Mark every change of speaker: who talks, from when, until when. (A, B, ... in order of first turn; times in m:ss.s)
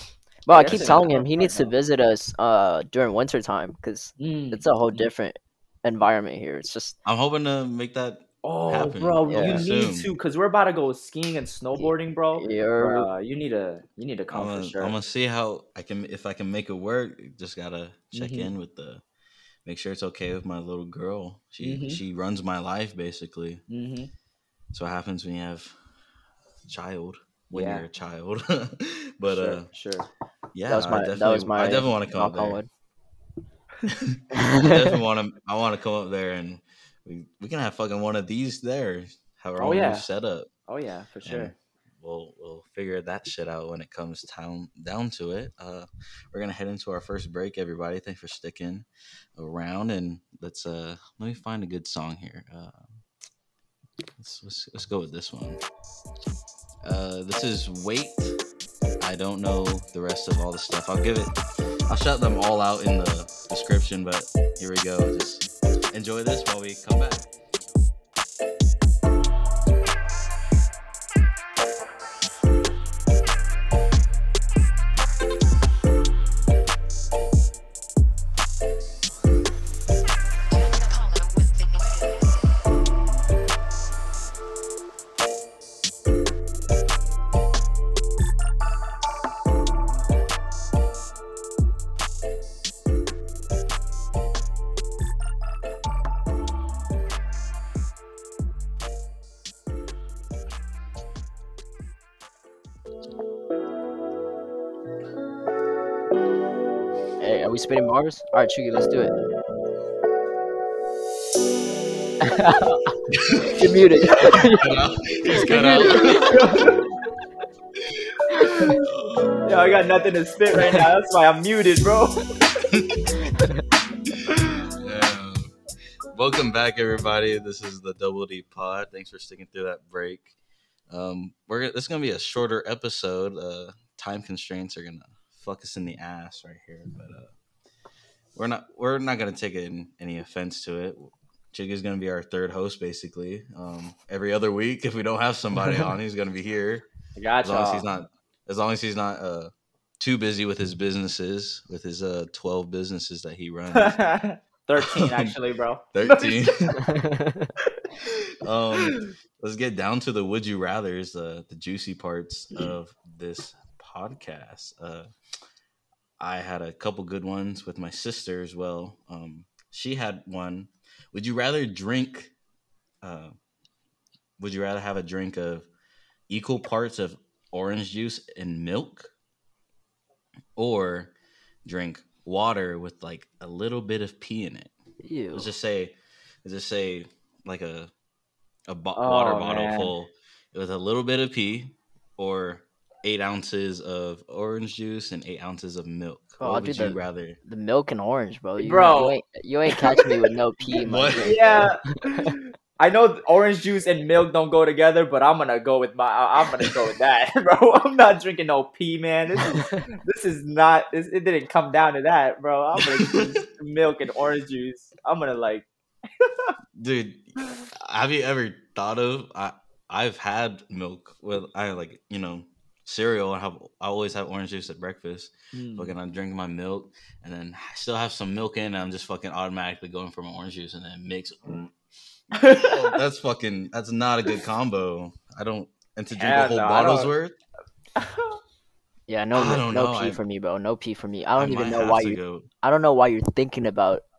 0:00.4-0:07.0 A
0:00.5-0:01.7 B
0:00.7-0:01.0 C
0:04.2-0:05.1 B
0:07.0-0:10.1 C
0:08.4-0:14.9 B
0:09.3-0:09.6 A
0:11.8-0:13.1 A
0:14.3-0:19.0 C
0:18.1-0:18.5 B
0:19.6-0:23.6 C
0:21.6-0:22.0 B
0:23.7-0:24.1 B
0:24.7-0:25.7 C
0:26.6-0:29.7 C
0:27.5-0:27.8 B
0:29.3-0:30.1 B
0:30.5-0:32.6 C
0:30.7-0:32.7 A
0:33.9-0:40.5 C
0:34.3-0:34.9 A
0:39.6-0:40.0 B
0:40.7-0:41.5 B
0:41.2-0:53.0 C
0:54.2-0:55.6 C
0:56.8-0:58.4 C
0:59.0-1:01.4 C
1:01.9-1:07.3 C
1:47.2-1:49.2 A
1:52.2-1:52.7 A
1:53.1-1:56.7 C
1:53.5-1:54.8 A
1:55.4-1:56.8 B
1:55.5-1:56.2 A
1:57.8-1:59.3 C
1:58.4-1:58.7 A
1:59.4-2:02.2 B
2:02.7-2:03.1 C
2:04.1-2:05.5 C
2:06.1-2:10.3 C
2:10.9-2:17.3 C
2:18.3-2:26.8 C
2:27.2-2:27.8 B
2:27.4-2:34.0 C
2:33.7-2:36.8 B
2:34.8-2:35.3 C
2:35.9-2:36.8 C
2:36.8-2:37.5 A
2:38.0-2:45.1 C
2:46.2-2:52.3 C
2:53.0-2:53.4 C
2:54.4-2:55.7 C
2:56.3-2:59.1 C
3:00.6-3:01.1 C
3:01.6-3:04.7 C
3:05.0-3:05.5 A
3:05.3-3:07.9 C
3:08.7-3:17.4 C
3:09.0-3:09.9 B
3:16.4-3:22.3 A
3:18.6-3:19.2 B
3:19.8-3:20.0 B
3:20.8-3:21.7 C
3:21.2-3:35.7 B
3:32.8-3:33.4 C
3:36.2-3:36.5 B
3:36.8-3:51.7 C
3:45.5-3:45.9 B
3:52.3-3:53.0 B
3:52.3-3:57.4 C
3:56.1-3:57.1 B
3:58.0-3:58.4 B
3:59.1-4:04.0 A
3:59.3-4:00.2 C
4:01.4-4:02.5 C